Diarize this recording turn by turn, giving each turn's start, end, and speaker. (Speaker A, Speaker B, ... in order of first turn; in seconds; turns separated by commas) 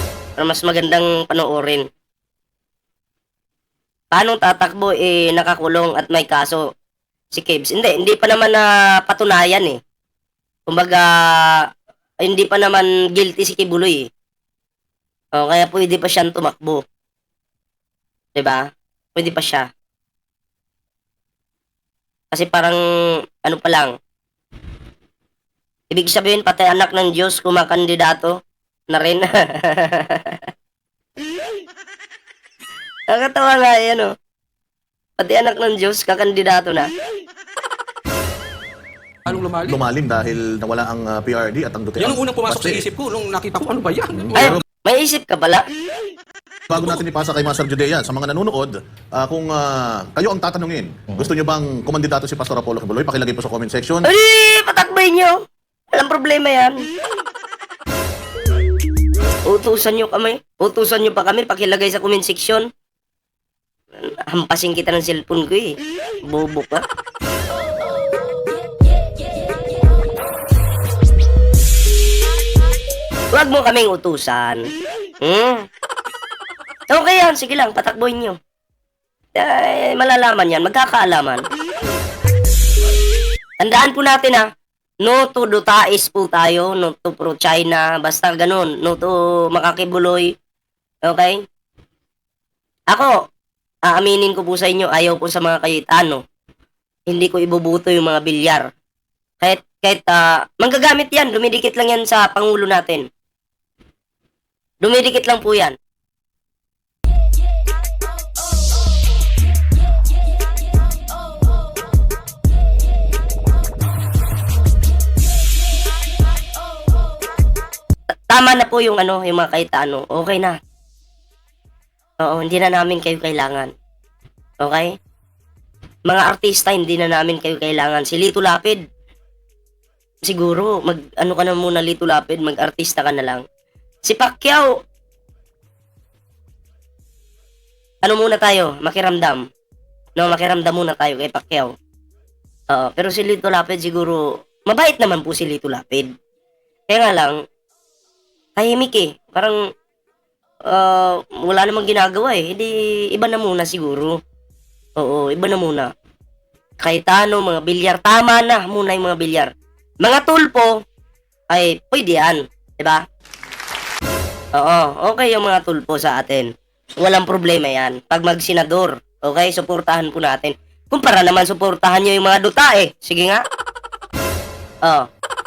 Speaker A: 0.4-1.9, Speaker A: 4.1-6.7, Speaker A: 7.3-9.8, Speaker A: 10.7-11.6, Speaker A: 12.2-14.1, Speaker A: 15.3-16.8, Speaker A: 18.4-19.7, Speaker A: 22.3-22.8, Speaker A: 23.4-23.9, Speaker A: 25.9-28.4, Speaker A: 28.9-30.5, Speaker A: 33.1-34.1, Speaker A: 35.2-36.9, Speaker B: 39.2-39.8, Speaker C: 39.3-42.8, Speaker B: 42.0-44.6, Speaker C: 44.3-44.6, Speaker A: 44.4-45.6, Speaker C: 46.7-54.1, Speaker A: 54.0-56.8, Speaker A: 59.4-62.7, Speaker A: 64.0-66.8, Speaker A: 73.3-74.6, Speaker A: 75.2-75.7, Speaker A: 76.9-78.4, Speaker A: 79.3-81.4, Speaker A: 83.6-84.5, Speaker A: 85.0-90.3, Speaker A: 91.0-91.4, Speaker A: 92.9-93.2, Speaker A: 93.9-96.2, Speaker A: 97.1-98.7, Speaker A: 99.4-103.1, Speaker A: 104.8-105.8, Speaker A: 118.3-120.6, Speaker A: 122.2-123.7, Speaker A: 124.6-124.9, Speaker A: 126.1-128.8, Speaker A: 130.2-133.4, Speaker A: 134.1-134.8, Speaker A: 138.0-139.5, Speaker A: 140.2-141.7, Speaker A: 142.7-146.1, Speaker A: 146.9-147.4, Speaker A: 148.6-149.6, Speaker A: 150.7-154.2, Speaker A: 155.0-155.9, Speaker A: 156.8-160.8, Speaker A: 161.5-163.0, Speaker A: 164.5-173.4